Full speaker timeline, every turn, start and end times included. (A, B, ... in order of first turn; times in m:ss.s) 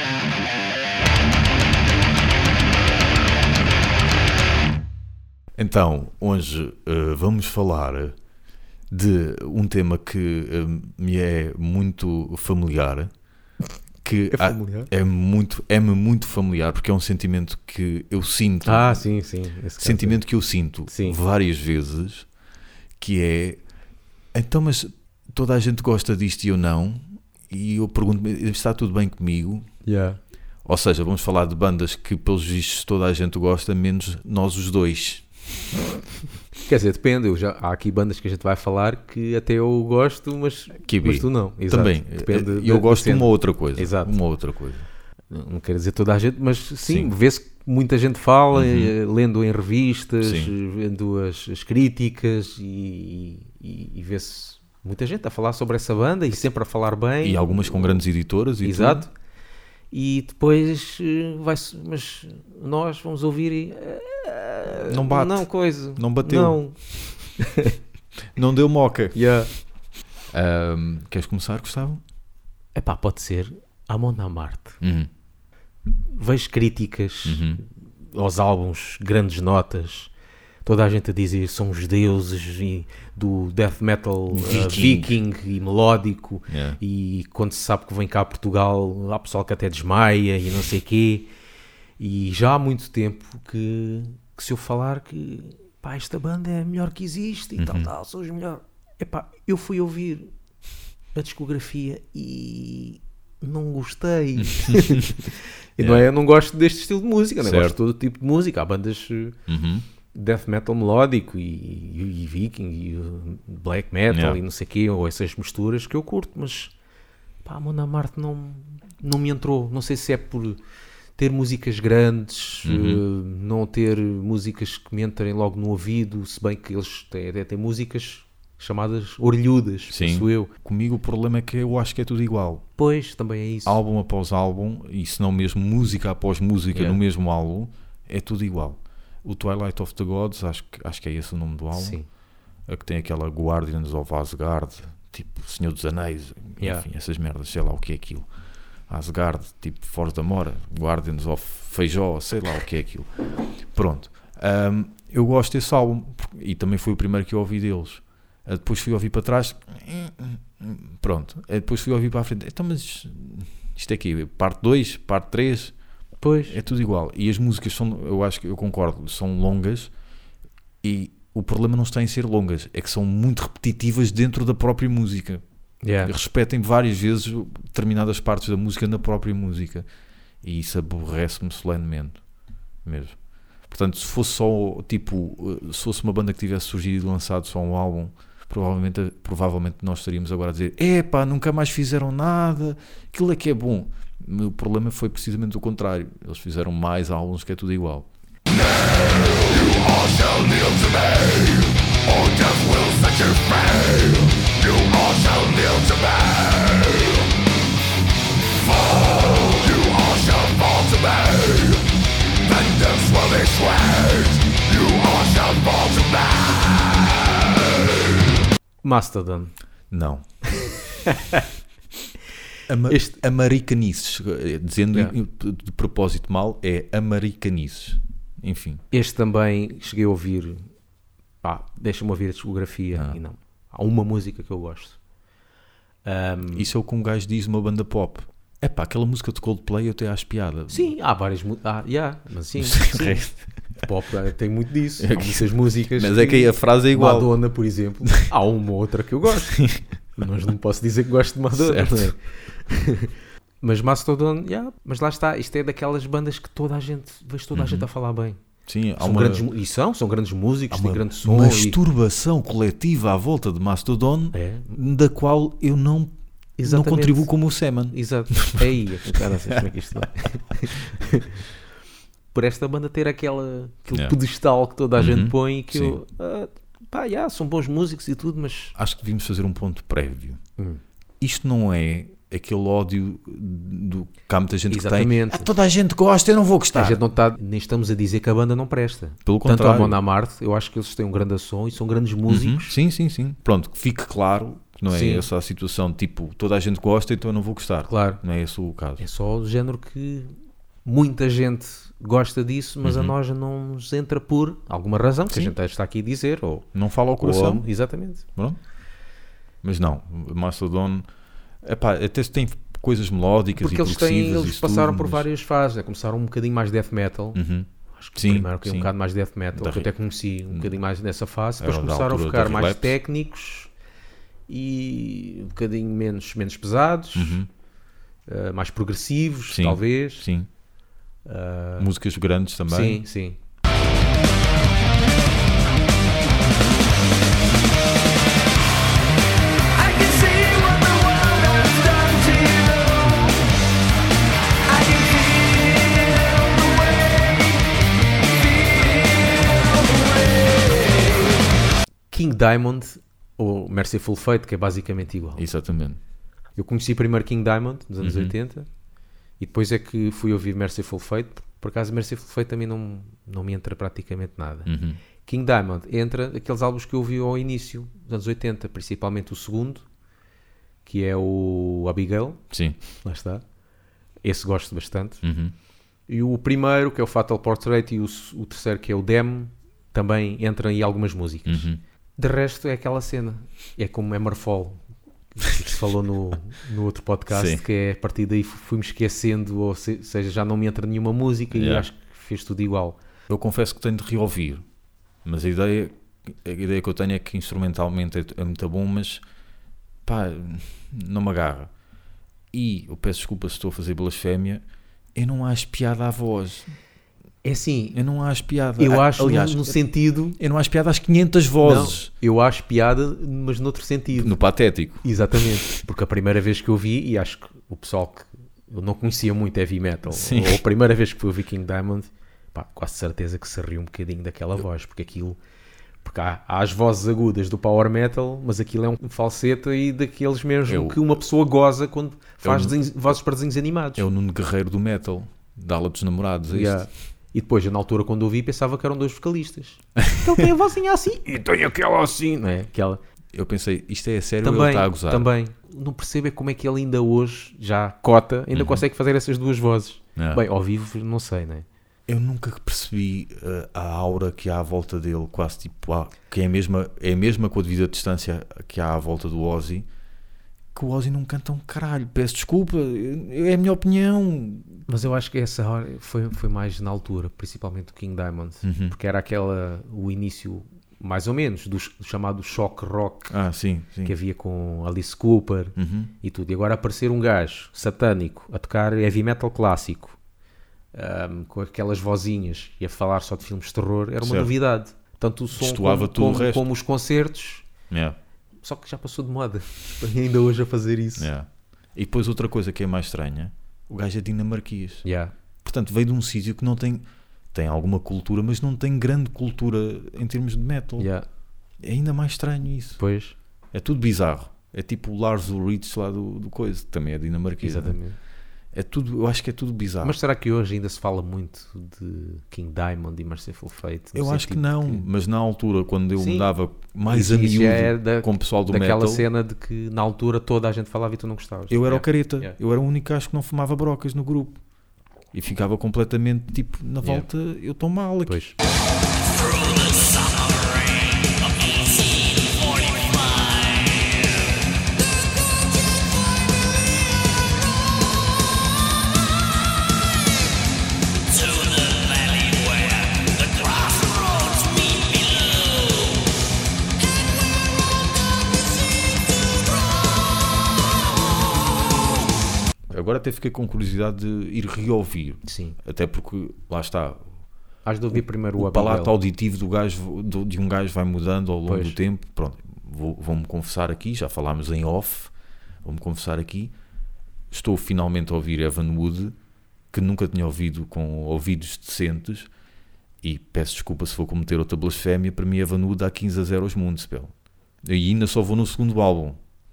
0:05.6-0:08.1 A
0:08.9-0:13.1 A
0:14.0-0:19.1 A
0:14.3-0:14.9 B
0:18.6-0:20.2 B
0:19.8-0:22.3 A
0:20.9-0:21.2 B
0:23.0-0:23.6 A
0:24.3-0:29.6 A
0:29.8-0:30.2 B
0:30.6-0:35.2 A
0:36.6-0:44.2 B
0:40.8-0:44.9 A
0:45.3-0:58.0 B
0:46.9-0:47.1 A
0:48.5-0:48.9 A
0:50.2-0:50.5 A
0:57.2-0:59.0 A
0:58.6-0:59.1 B
0:59.9-1:07.8 B
1:04.9-1:06.6 A
1:08.4-1:09.2 A
1:09.1-1:09.5 B
1:10.3-1:12.0 A
1:12.7-1:14.8 B
1:14.8-1:15.1 A
1:16.1-1:20.1 B
1:17.2-1:17.6 A
1:20.6-1:31.3 B
1:24.3-1:25.2 A
1:26.5-1:26.8 A
1:32.0-1:40.3 B
1:37.6-1:37.9 A
1:41.1-1:49.4 B
1:44.4-1:45.2 A
1:45.8-1:46.1 A
1:47.4-1:47.8 A
1:49.5-1:49.8 A
1:50.1-1:56.7 B
1:54.1-1:54.4 A
1:57.4-2:00.6 B
2:01.2-2:10.5 B
2:02.6-2:03.0 A
2:09.9-2:12.6 A
2:12.8-2:13.8 B
2:13.6-2:22.0 A
2:16.7-2:17.0 B
2:21.7-2:22.0 B
2:22.7-2:28.3 A
2:26.6-2:26.8 B
2:28.9-2:33.1 A
2:33.7-2:45.7 A
2:46.2-2:46.6 B
2:46.5-2:49.9 A
2:50.8-2:55.4 A
2:55.8-2:56.1 B
2:56.0-2:59.8 A
3:00.4-3:02.2 A
3:02.8-3:03.2 A
3:03.7-3:18.1 A
3:19.8-3:21.5 C
3:22.0-3:26.9 C
3:29.4-3:31.8 C
3:32.4-3:36.5 C
3:38.8-3:39.5 B
3:39.9-3:40.2 A
3:40.5-3:41.5 B
3:42.7-3:48.8 A
3:48.9-3:50.7 B
3:51.4-3:55.0 B
3:56.0-3:56.7 B
3:56.5-4:00.9 A
4:00.7-4:18.4 B
4:02.6-4:03.4 A
4:05.0-4:07.3 A
4:09.5-4:09.8 A
4:11.5-4:12.1 A
4:17.5-4:17.9 A
4:18.7-4:19.5 A
4:19.0-4:21.8 B
4:20.7-4:26.1 A
4:24.3-4:24.8 B
4:26.6-4:27.3 B
4:26.6-4:29.3 A
4:27.9-4:31.5 B
4:32.3-4:38.7 B
4:35.0-4:36.0 A
4:38.8-4:40.4 A
4:41.2-4:47.0 A
4:44.7-4:45.5 B
4:46.7-4:52.8 B
4:49.2-4:50.0 A
4:52.3-4:59.0 A
4:54.9-4:55.3 B
4:57.9-4:58.2 B
4:59.0-5:06.7 B
5:02.8-5:03.1 A
5:06.7-5:07.7 A
5:07.2-5:08.2 B
5:09.6-5:11.1 A
5:11.6-5:15.3 A
5:13.6-5:17.4 B
5:17.3-5:18.9 A
5:18.0-5:23.7 B
5:19.5-5:19.9 A
5:21.6-5:23.0 A
5:24.5-5:27.4 B
5:27.1-5:27.5 A
5:28.3-5:30.3 B
5:29.5-5:30.5 A
5:31.2-5:31.9 B
5:31.8-5:33.0 A
5:32.7-5:33.4 B
5:39.9-5:40.8 B
5:39.9-5:43.0 C
5:41.8-5:42.1 B
5:44.7-5:47.2 C
5:50.3-5:50.6 C
5:52.1-5:55.4 B
5:55.4-5:56.0 A
5:56.6-5:58.7 B
5:58.0-5:58.3 A
5:59.4-6:04.7 B
6:04.6-6:05.0 A
6:05.2-6:09.8 B
6:10.8-6:12.4 B
6:12.5-6:12.8 A
6:12.9-6:13.4 B
6:14.2-6:15.2 B
6:15.2-6:15.5 A
6:16.1-6:24.8 B
6:21.4-6:21.8 A
6:25.3-6:33.0 B
6:27.3-6:27.6 A
6:31.5-6:31.9 A
6:33.3-6:34.6 A
6:35.2-6:39.2 A
6:40.0-6:41.7 A
6:42.5-6:44.6 A
6:45.1-6:46.7 A
6:47.4-6:48.0 B
6:47.9-6:49.8 A
6:48.8-6:50.4 B
6:50.4-6:52.1 A
6:51.6-6:54.4 B
6:54.2-6:55.0 A
6:55.0-7:05.4 B
7:00.1-7:00.6 A
7:06.0-7:14.0 B
7:10.7-7:11.0 A
7:12.4-7:12.8 A
7:14.0-7:16.8 A
7:16.5-7:23.0 B
7:23.3-7:25.3 A
7:24.4-7:31.6 B
7:28.5-7:28.8 A
7:30.2-7:30.4 A
7:32.1-7:39.8 A
7:40.7-7:44.8 A
7:44.9-7:53.4 B
7:48.6-7:48.9 A
7:53.3-7:54.1 A
7:54.0-8:00.2 B
7:55.8-7:56.1 A
8:00.9-8:07.6 B
8:04.2-8:04.5 A
8:05.6-8:06.6 A
8:07.9-8:08.2 A
8:08.6-8:11.3 B
8:11.2-8:15.0 A
8:15.0-8:15.3 B
8:15.6-8:21.1 A
8:21.0-8:21.2 B
8:21.8-8:23.0 A
8:23.0-8:23.3 B
8:23.7-8:28.0 A
8:27.6-8:28.2 B
8:28.7-8:30.2 A
8:30.0-8:35.0 B
8:34.1-8:39.2 A
8:36.2-8:36.5 B
8:37.0-8:42.6 B
8:41.7-8:44.6 A
8:45.3-8:48.4 A
8:47.0-8:47.3 B
8:48.3-8:48.5 B
8:52.7-8:53.6 C
9:01.7-9:04.9 C
9:12.9-9:17.3 A
9:15.4-9:15.8 B
9:17.8-9:19.1 B
9:18.1-9:25.3 A
9:21.7-9:22.0 B
9:25.8-9:26.7 A
9:27.5-9:29.3 A
9:29.9-9:32.5 A
9:33.2-9:37.3 A
9:37.8-9:39.4 A